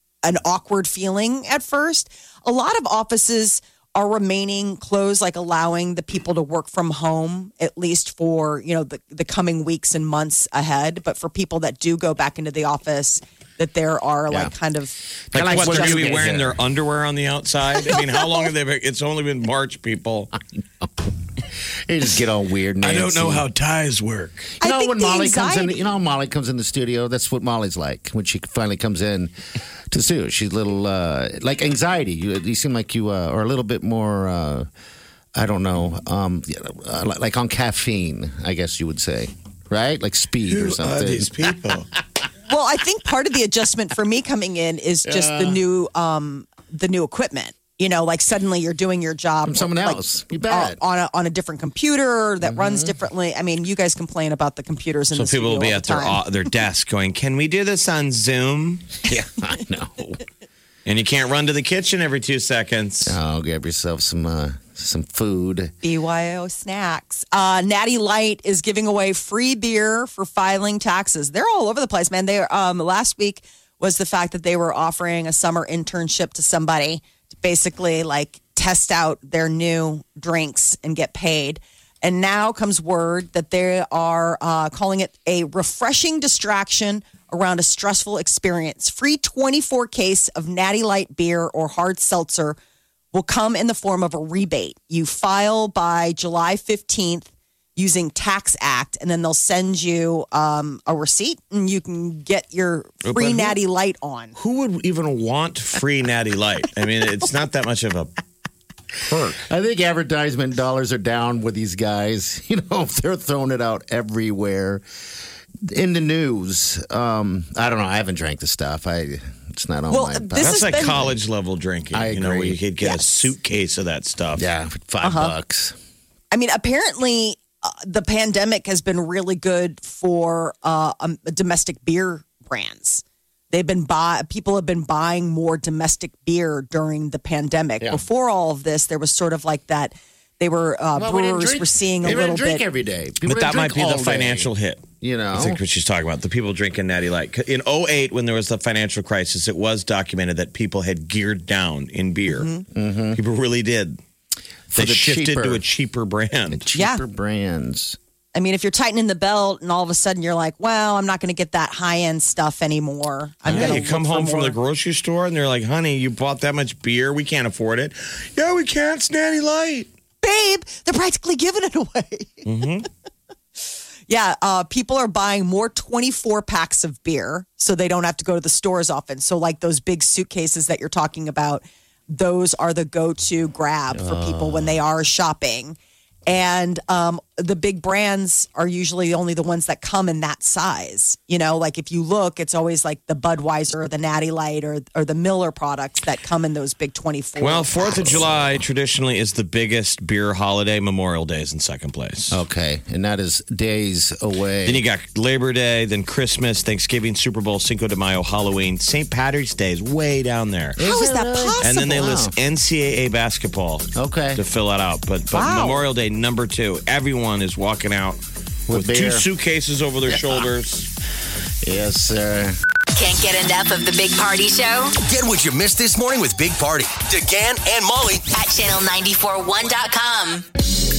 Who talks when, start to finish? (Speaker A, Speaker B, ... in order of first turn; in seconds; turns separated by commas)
Speaker A: 0.2-14.9, Speaker B: 15.3-16.6, Speaker C: 15.3-20.3, Speaker A: 15.5-16.1, Speaker A: 17.8-18.2, Speaker B: 20.8-21.1, Speaker B: 21.9-23.4, Speaker C: 22.8-24.5, Speaker A: 24.6-25.8, Speaker B: 24.6-29.3, Speaker B: 29.9-34.7, Speaker B: 35.4-41.8, Speaker C: 40.5-41.9, Speaker A: 42.5-56.2, Speaker B: 45.0-45.6, Speaker B: 49.4-50.8, Speaker B: 52.4-52.9, Speaker C: 55.1-58.9, Speaker B: 59.1-60.2, Speaker C: 60.9-63.2, Speaker B: 63.1-65.7, Speaker A: 65.8-92.6, Speaker A: 93.1-104.3, Speaker C: 103.0-103.6, Speaker C: 104.4-108.1, Speaker C: 109.0-109.4, Speaker B: 109.4-114.8, Speaker B: 115.6-121.1, Speaker A: 119.9-121.0, Speaker C: 120.4-124.4, Speaker B: 121.9-122.6, Speaker A: 122.8-123.3, Speaker B: 124.4-125.8, Speaker A: 125.0-125.3, Speaker A: 126.3-142.6, Speaker B: 140.9-144.5, Speaker C: 143.3-152.5, Speaker B: 145.0-145.6, Speaker A: 152.3-152.6, Speaker B: 152.7-153.2, Speaker C: 153.1-154.0, Speaker B: 154.7-155.6, Speaker C: 154.7-156.6, Speaker B: 156.5-158.0, Speaker A: 156.7-157.0, Speaker A: 158.3-164.6, Speaker B: 163.4-163.8, Speaker C: 163.5-169.9, Speaker A: 170.2-172.5, Speaker C: 172.4-172.9, Speaker A: 174.1-198.3, Speaker B: 183.9-184.8, Speaker C: 197.4-202.4, Speaker B: 197.9-198.3, Speaker B: 202.3-204.8, Speaker C: 204.6-210.8, Speaker B: 210.8-212.3, Speaker A: 210.8-212.0, Speaker C: 211.6-218.2, Speaker B: 213.9-214.4, Speaker A: 215.3-215.8, Speaker B: 218.7-219.3, Speaker C: 218.7-220.9, Speaker B: 220.1-220.4, Speaker B: 221.6-222.6, Speaker D: 222.9-224.9, Speaker E: 225.0-228.2, Speaker D: 228.3-230.4